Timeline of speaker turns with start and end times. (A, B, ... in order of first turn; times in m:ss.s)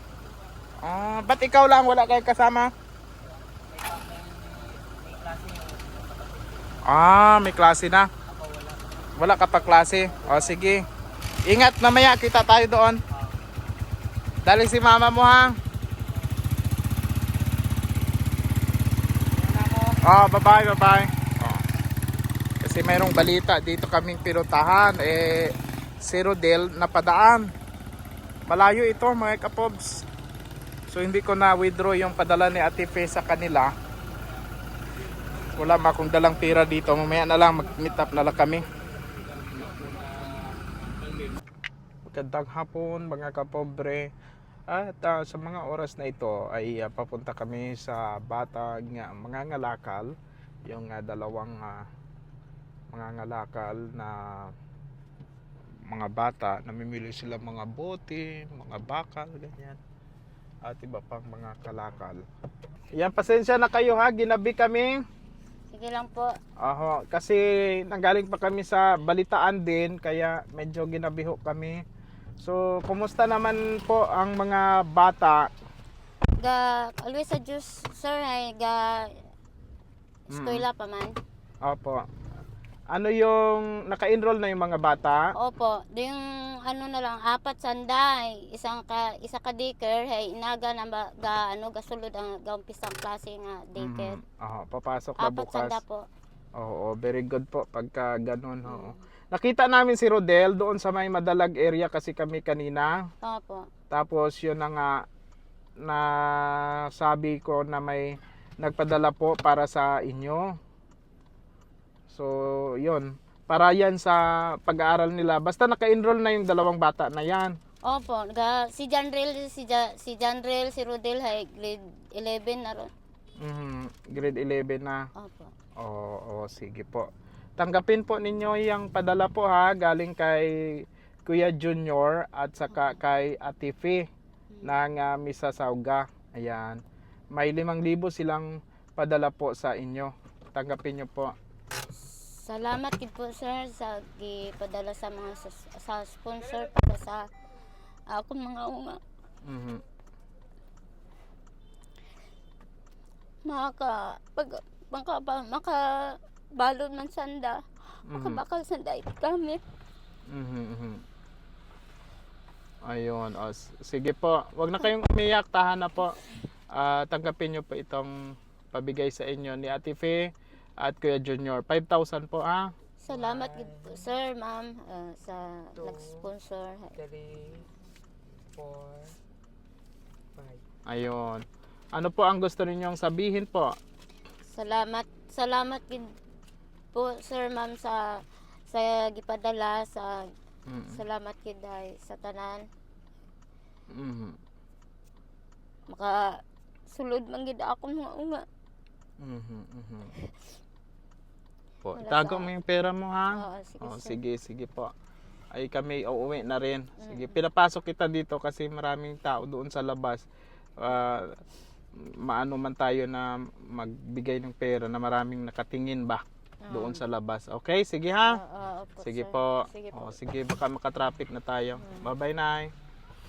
0:00.8-0:02.7 A
0:03.7-0:06.8 B
0:06.8-0:08.1 A
0:08.2-0:10.7 B
0:09.2-0:10.8 A
0:11.4-0:13.0 A
0:13.1-0:13.4 B
0:14.4-0:15.5 A
0:19.4-0:20.0 B
0:20.0-0:21.6 A
0:22.6-0:27.5 A
0:28.5-0:30.0 A
0:30.9-0:33.7 A
0:35.6-0:38.6 A
0:39.5-0:40.2 B
0:42.1-0:44.1 A
0:44.7-0:50.1 A
0:50.7-0:51.8 A
0:52.9-0:54.2 A
0:55.9-0:59.8 A
1:00.6-1:02.2 A
1:03.0-1:04.9 A
1:05.7-1:06.3 C
1:06.6-1:11.8 A
1:12.4-1:15.5 A
1:16.4-1:19.1 C
1:20.3-1:21.1 C
1:20.3-1:20.6 A
1:21.6-1:22.0 A
1:22.9-1:25.3 A
1:25.4-1:34.2 C
1:33.8-1:35.8 A
1:35.2-1:36.0 C
1:36.6-1:42.9 A
1:38.6-1:39.0 C
1:43.2-1:43.6 C
1:43.9-1:45.0 A
1:45.8-1:50.5 A
1:52.1-1:57.6 A
1:57.8-2:02.9 C
2:03.4-2:05.0 A
2:05.2-2:05.5 C
2:05.8-2:10.5 A
2:11.3-2:14.1 A
2:14.6-2:16.8 A
2:17.3-2:21.3 A
2:22.0-2:27.2 C
2:28.1-2:29.0 C
2:29.4-2:29.8 A
2:33.4-2:37.6 C
2:38.1-2:38.4 A
2:38.1-2:39.6 C
2:40.3-2:41.0 A
2:42.8-2:46.1 A
2:46.7-2:48.1 A
2:48.7-2:52.7 A
2:53.0-2:56.9 C
2:53.1-2:54.1 B
2:55.8-2:56.3 B
2:57.0-2:57.7 B
2:58.5-2:59.2 B
3:00.4-3:00.6 B
3:00.9-3:01.4 A
3:01.9-3:03.7 A
3:04.5-3:06.1 C
3:06.9-3:08.0 C
3:08.7-3:10.2 C
3:10.7-3:11.0 A
3:10.9-3:12.6 C
3:13.9-3:14.4 A
3:15.9-3:16.2 C
3:16.9-3:18.4 C
3:19.2-3:20.1 A
3:21.8-3:24.9 A
3:22.0-3:22.5 C
3:23.3-3:24.2 C
3:25.5-3:30.2 A
3:27.0-3:27.3 C
3:30.8-3:31.3 A
3:32.2-3:38.4 A
3:36.6-3:37.0 C
3:38.2-3:40.1 C
3:39.0-3:42.7 A
3:41.8-3:42.1 C